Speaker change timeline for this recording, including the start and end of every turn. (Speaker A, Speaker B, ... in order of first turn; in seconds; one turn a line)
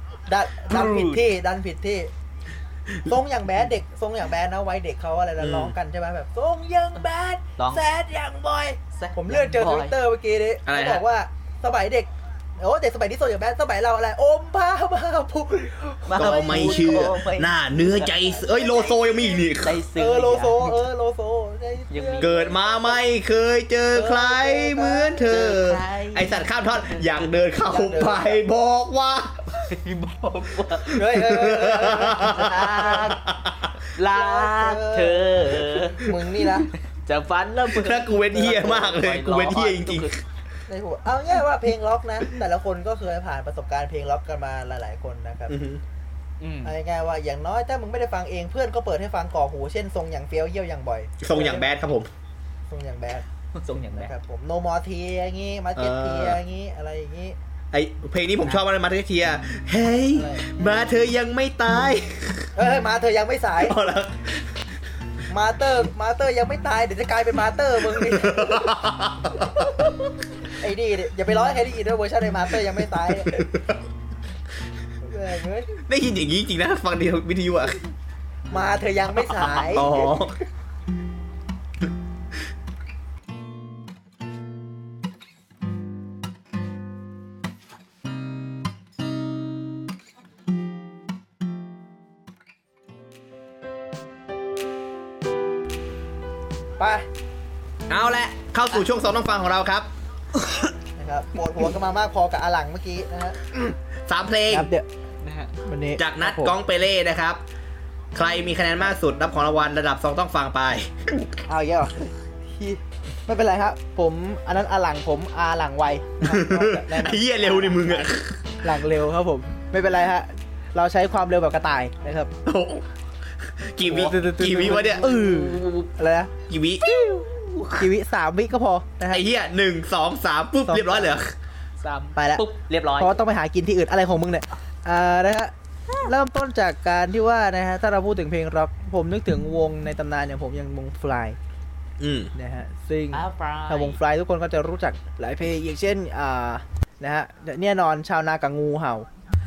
Speaker A: 0.3-2.1
Speaker B: 0.7-1.2
Speaker A: 3.0-17.2
Speaker C: 5.4-5.7
Speaker B: 8.9-9.9
Speaker B: 10.7-11.0
Speaker B: 16.1-18.8
Speaker C: 16.1-19.8
Speaker A: 18.2-23.0
Speaker B: 19.5-20.8
Speaker B: 21.9-22.5
Speaker C: 22.2-29.5
Speaker A: 23.9-25.2
Speaker B: 25.3-27.3
Speaker A: 27.6-28.4
Speaker B: 29.5-31.1
Speaker A: 30.9-33.1
Speaker C: 31.1-33.7
Speaker B: 32.1-33.2
Speaker B: 33.9-40.1
Speaker A: 34.1-36.7
Speaker C: 37.7-40.2
Speaker A: 40.7-45.6
Speaker C: 45.5-45.8
Speaker B: 46.4-46.7
Speaker A: 46.6-51.7
Speaker C: 51.2-52.1
Speaker A: 52.7-57.4
Speaker B: 53.5-54.1
Speaker C: 55.8-56.4
Speaker C: 57.7-62.5
Speaker A: 60.1-60.9
Speaker A: 62.5-63.8
Speaker C: 63.6-64.5
Speaker A: 65.3-68.7
Speaker C: 67.8-69.7
Speaker A: 70.5-73.5
Speaker C: 72.9-73.8
Speaker A: 75.0-75.7
Speaker C: 75.8-77.8
Speaker A: 78.5-80.2
Speaker C: 79.4-80.4
Speaker A: 96.8-97.0
Speaker C: 97.9-99.9
Speaker B: 97.9-98.2
Speaker A: 101.0-103.8
Speaker C: 104.1-104.7
Speaker A: 104.5-104.8
Speaker B: 105.2-105.5
Speaker A: 105.6-106.6
Speaker C: 106.0-107.4
Speaker C: 108.1-111.3
Speaker A: 111.5-118.1
Speaker C: 116.2-118.6
Speaker A: 118.6-122.3
Speaker C: 122.4-122.9
Speaker C: 123.6-125.1
Speaker A: 123.8-126.3
Speaker B: 124.6-125.9
Speaker C: 126.5-126.8
Speaker B: 126.8-127.9
Speaker A: 127.8-129.2
Speaker C: 129.1-131.3
Speaker A: 130.7-131.2
Speaker B: 131.8-133.2
Speaker A: 132.2-132.4
Speaker A: 133.0-141.4
Speaker C: 142.0-142.3
Speaker A: 142.3-149.1
Speaker B: 143.1-144.0